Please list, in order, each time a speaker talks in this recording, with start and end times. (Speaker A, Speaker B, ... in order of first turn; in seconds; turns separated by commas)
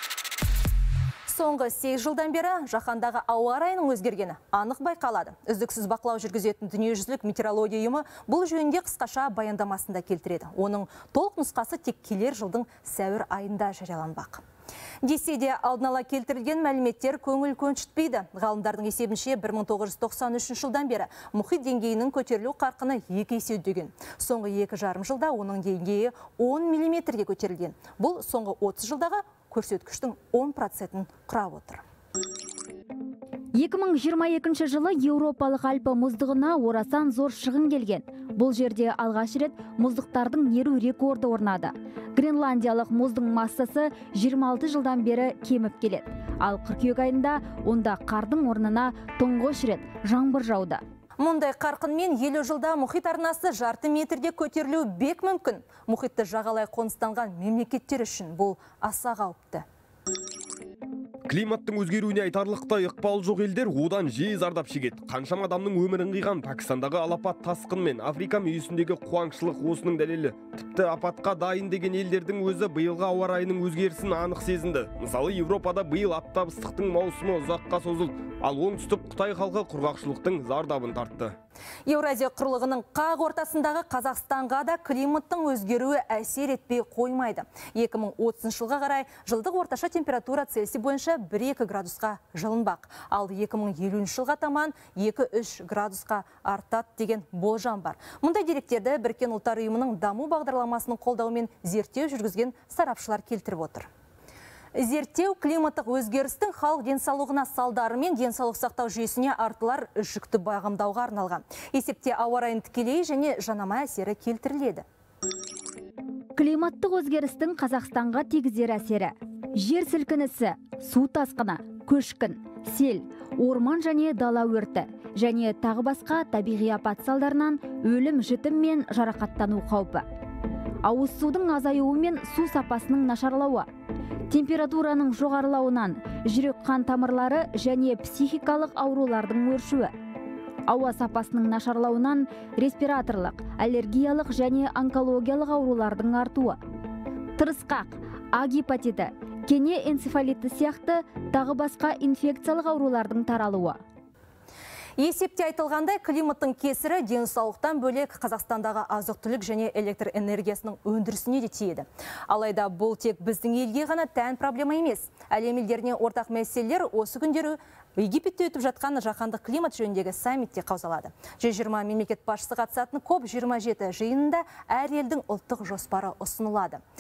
Speaker A: 1.3-14.4, Speaker A: 15.0-31.8, Speaker B: 33.5-50.8, Speaker A: 51.2-59.7, Speaker C: 61.3-81.3, Speaker A: 81.9-103.9, Speaker A: 104.7-114.9, Speaker B: 116.4-130.1, Speaker B: 130.8-133.7, Speaker B: 134.3-139.9, Speaker B: 140.7-146.6, Speaker B: 147.4-153.8, Speaker A: 155.0-176.8